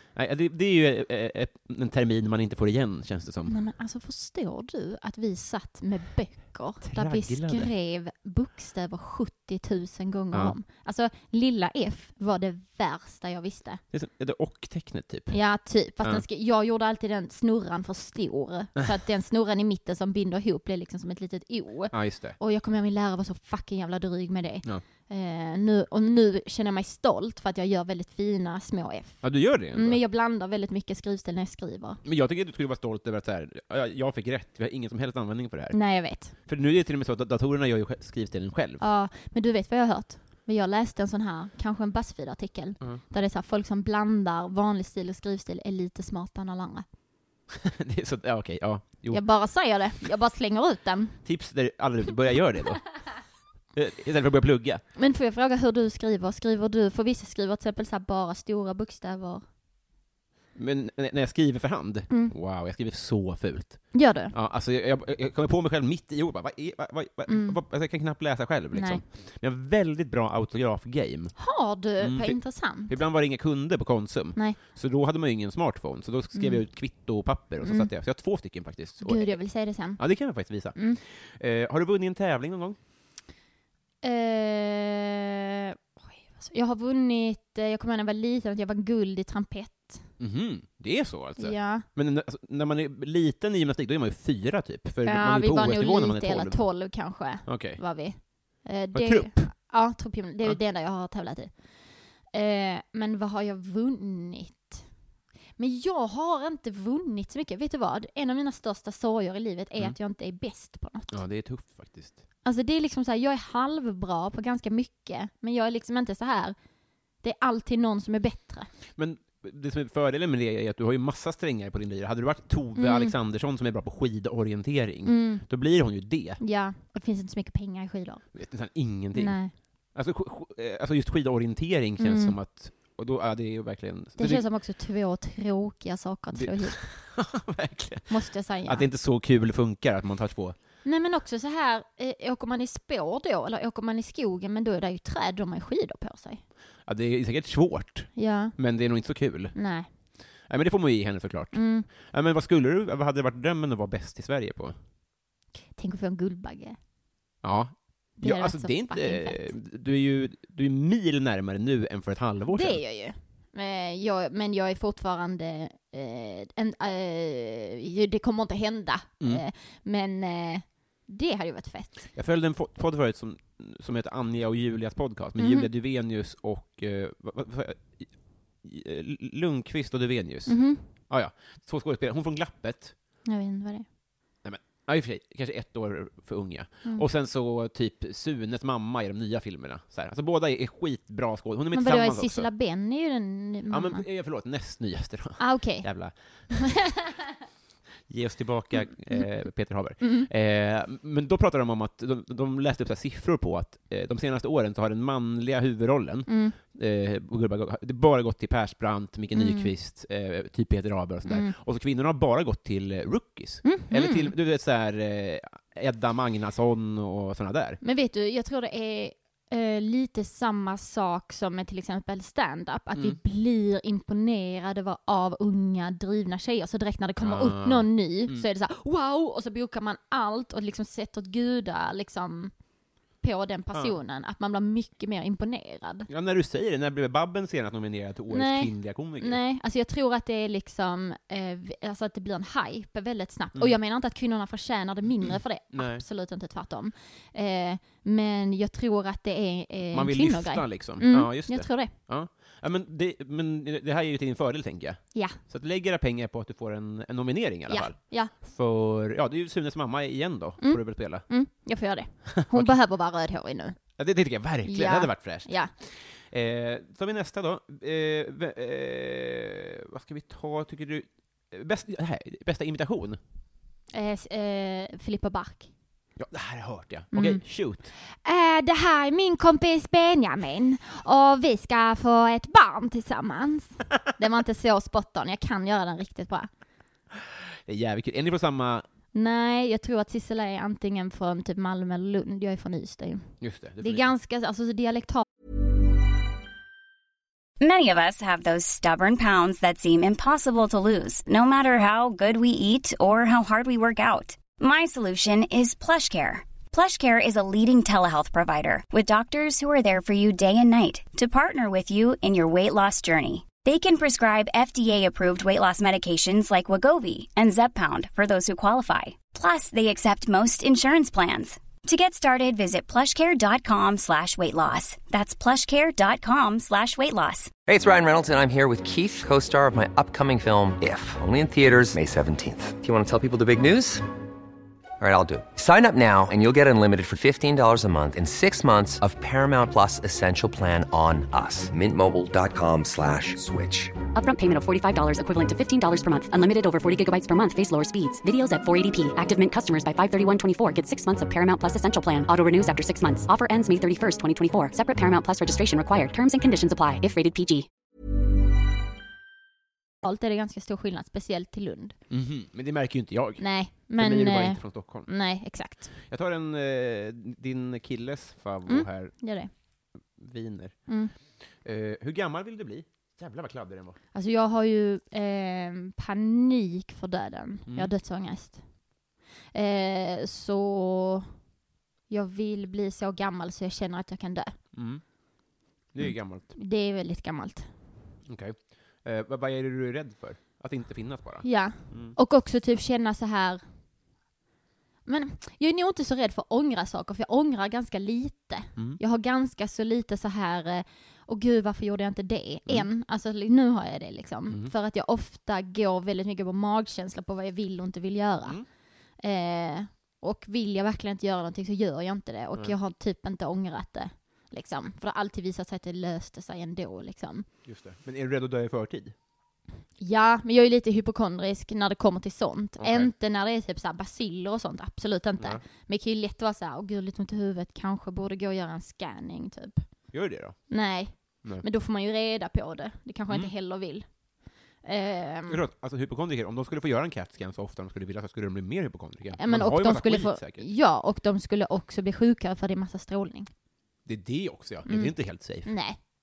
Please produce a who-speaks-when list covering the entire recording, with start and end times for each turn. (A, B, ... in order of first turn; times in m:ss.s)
0:00.1-0:03.6 A
0:03.5-0:13.8 B
0:06.8-0:07.7 A
0:10.3-0:10.6 A
0:13.9-0:15.4 A
0:15.3-0:32.0 B
0:21.9-0:22.4 A
0:29.2-0:30.0 A
0:32.0-0:38.8 A
0:35.7-0:36.3 B
0:38.8-0:46.9 B
0:47.6-0:49.4 A
0:49.1-0:51.2 B
0:51.2-0:53.2 A
0:53.7-0:54.8 A
0:54.9-0:59.4 B
1:00.5-1:11.4 A
1:02.1-1:02.3 B
1:03.9-1:04.3 B
1:07.3-1:07.6 B
1:08.7-1:09.0 B
1:11.4-1:13.0 B
1:12.0-1:22.8 A
1:16.3-1:16.6 B
1:17.6-1:17.9 B
1:19.0-1:21.0 B
1:24.0-1:30.1 B
1:30.2-1:38.2 A
1:31.4-1:31.8 B
1:35.0-1:44.9 B
1:38.9-1:39.5 A
1:45.6-1:51.2 B
1:51.1-1:52.2 A
1:52.4-1:56.6 B
1:57.2-1:58.7 B
1:58.9-2:06.4 A
2:02.8-2:03.2 B
2:05.0-2:05.4 B
2:06.4-2:08.3 B
2:08.3-2:14.4 A
2:09.1-2:09.5 B
2:12.0-2:12.4 B
2:14.2-2:16.8 B
2:16.3-2:20.6 A
2:18.1-2:18.9 B
2:20.8-2:26.4 B
2:26.8-2:29.6 A
2:28.2-2:28.6 B
2:29.5-2:29.9 B
2:30.4-2:34.8 A
2:31.5-2:31.9 B
2:35.7-2:36.8 B
2:37.4-2:42.8 A
2:38.2-2:39.5 B
2:42.5-2:52.1 B
2:52.1-3:02.9 A
2:55.4-2:55.7 B
3:00.5-3:00.9 B
3:03.2-3:03.8 B
3:04.4-3:12.5 A
3:11.7-3:14.0 B
3:13.7-3:16.9 A
3:15.4-3:16.8 B
3:18.1-3:37.8 A
3:20.0-3:20.3 B
3:26.3-3:26.6 B
3:29.3-3:29.7 B
3:31.3-3:31.6 B
3:33.6-3:34.3 B
3:37.8-3:52.5 B
3:47.2-3:48.4 A
3:53.2-3:56.1 B
3:56.1-3:59.4 A
3:58.3-4:11.9 B
4:05.2-4:06.0 A
4:09.9-4:21.2 A
4:17.7-4:18.3 B
4:20.6-4:23.8 B
4:22.4-4:22.8 A
4:24.0-4:33.2 A
4:24.6-4:25.7 B
4:33.9-4:35.7 B
4:36.2-4:37.9 A
4:37.1-4:46.5 B
4:47.2-4:48.8 A
4:49.1-4:55.2 B
4:53.4-4:54.1 A
4:57.6-5:27.5 C
5:27.6-5:34.1 D
5:35.0-5:43.9 D
5:44.1-5:57.7 E
6:00.0-6:02.0 B
6:02.1-6:05.1 A
6:03.4-6:05.9 B
6:06.0-6:09.1 A
6:08.6-6:09.5 B
6:10.2-6:10.9 A
6:10.9-6:11.1 B
6:11.6-6:14.0 A
6:14.1-6:18.6 B
6:19.5-6:21.3 B
6:22.1-6:24.5 B
6:24.7-6:25.0 A
6:25.9-6:26.5 A
6:26.0-6:27.7 B
6:28.2-6:32.2 A
6:31.4-6:33.6 B
6:35.0-6:48.6 B
6:49.2-6:57.5 B
6:57.6-6:59.1 A
7:00.0-7:09.8 B
7:02.8-7:03.1 A
7:05.4-7:05.6 A
7:10.1-7:10.7 A
7:10.7-7:14.1 B
7:14.8-7:15.6 B
7:15.5-7:20.6 A
7:19.4-7:23.5 B
7:24.0-7:25.7 A
7:24.8-7:26.0 B